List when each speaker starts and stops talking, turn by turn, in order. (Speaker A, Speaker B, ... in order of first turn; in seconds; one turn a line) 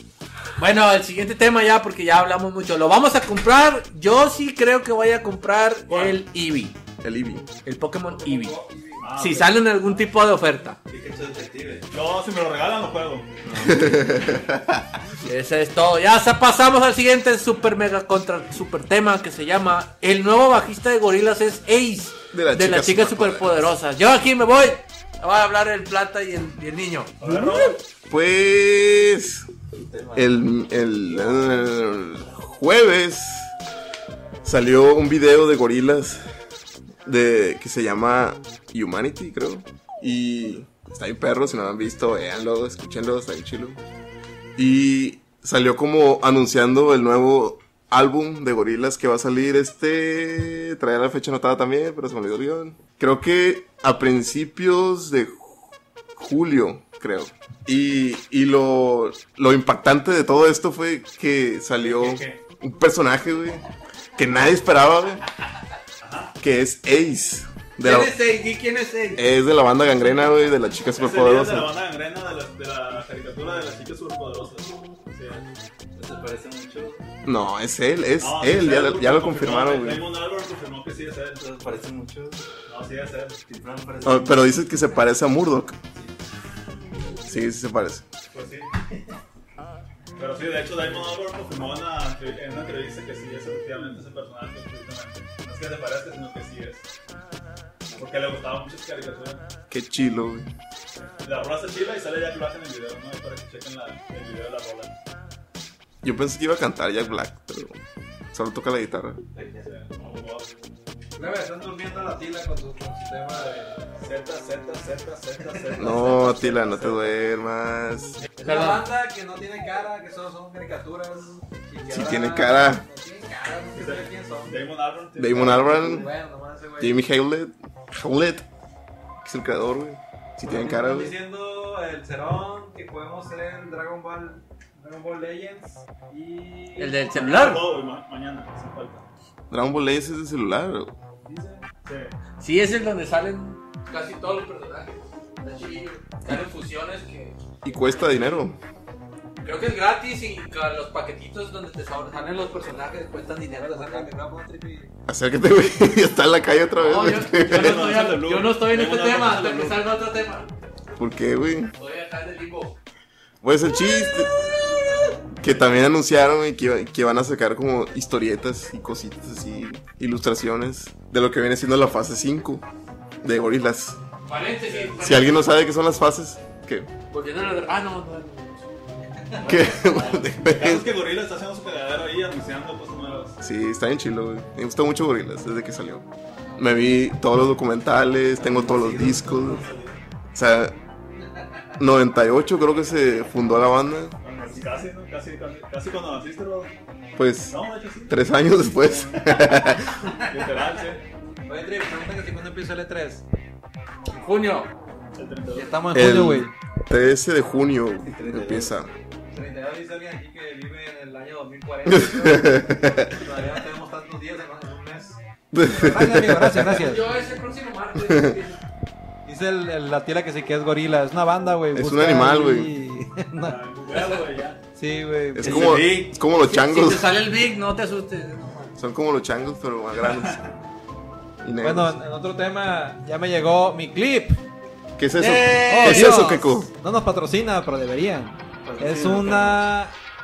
Speaker A: 0.6-6.8
Speaker B: 5.9-6.2
Speaker C: 7.0-7.5
Speaker A: 7.6-8.6
Speaker D: 8.1-9.2
Speaker B: 9.0-9.6
Speaker A: 9.2-10.8
Speaker E: 10.9-11.9
Speaker B: 11.9-13.3
Speaker E: 13.4-13.9
Speaker C: 13.6-14.8
Speaker A: 15.2-27.8
Speaker C: 22.3-23.7
Speaker B: 27.2-27.8
Speaker C: 28.1-29.5
Speaker E: 29.7-31.5
Speaker C: 30.1-33.5
Speaker C: 34.4-36.2
Speaker C: 37.0-43.8
Speaker C: 44.5-63.6
Speaker B: 61.8-62.4
Speaker C: 64.2-65.2
Speaker B: 66.0-66.3
Speaker C: 66.4-68.2
Speaker A: 67.8-69.2
Speaker C: 69.1-71.7
Speaker B: 70.9-75.4
Speaker E: 76.0-77.0
Speaker C: 77.2-80.0
Speaker B: 78.2-81.4
Speaker E: 81.4-82.5
Speaker B: 82.7-83.4
Speaker E: 83.5-84.5
Speaker C: 84.0-85.8
Speaker C: 87.2-88.0
Speaker B: 88.3-88.8
Speaker B: 90.2-96.8
Speaker B: 97.9-99.4
Speaker C: 99.7-100.5
Speaker B: 101.2-105.0
Speaker C: 106.0-107.8
Speaker C: 108.3-109.2
Speaker E: 109.3-109.7
Speaker B: 109.6-110.5
Speaker D: 111.2-113.9
Speaker B: 114.0-117.1
Speaker C: 115.8-118.2
Speaker D: 118.4-124.6
Speaker A: 118.4-118.8
Speaker C: 121.9-122.8
Speaker B: 123.7-126.0
Speaker C: 125.2-126.1
Speaker D: 125.7-127.0
Speaker C: 126.8-128.4
Speaker C: 129.2-131.2
Speaker D: 130.4-137.0
Speaker A: 136.8-137.6
Speaker B: 137.1-139.0
Speaker C: 139.5-140.9
Speaker B: 141.2-142.1
Speaker A: 142.4-147.3
Speaker C: 147.6-148.6
Speaker A: 149.4-154.1
Speaker D: 153.2-154.9
Speaker C: 155.1-157.9
Speaker A: 156.8-160.5
Speaker B: 157.4-159.8
Speaker C: 160.9-161.7
Speaker A: 161.8-162.8
Speaker C: 163.4-164.3
Speaker C: 165.4-172.6
Speaker C: 173.2-174.0
Speaker A: 174.2-175.4
Speaker C: 175.0-176.9
Speaker A: 177.1-178.6
Speaker B: 179.4-183.3
Speaker C: 179.4-180.9
Speaker E: 179.4-180.0
Speaker C: 183.4-189.6
Speaker E: 188.4-190.0
Speaker C: 190.3-190.7
Speaker C: 191.8-194.2
Speaker B: 194.2-196.7
Speaker C: 197.2-197.6
Speaker B: 197.5-199.7
Speaker C: 198.1-200.0
Speaker B: 200.3-201.0
Speaker D: 201.4-203.2
Speaker A: 204.1-204.7
Speaker B: 205.2-205.8
Speaker D: 205.5-206.5
Speaker C: 205.9-208.9
Speaker E: 208.0-208.7
Speaker D: 209.3-217.2
Speaker C: 211.8-213.2
Speaker C: 215.5-216.8
Speaker A: 216.7-218.6
Speaker C: 218.0-218.4
Speaker D: 219.2-223.6
Speaker C: 221.7-222.7
Speaker B: 223.4-224.6
Speaker D: 224.8-225.9
Speaker C: 225.3-227.1
Speaker B: 225.4-226.1
Speaker A: 226.4-228.7
Speaker C: 228.8-230.4
Speaker B: 230.0-230.4
Speaker C: 231.4-231.9
Speaker D: 231.6-234.4
Speaker C: 235.0-236.7
Speaker A: 235.2-236.2
Speaker D: 235.7-239.9
Speaker E: 238.6-239.6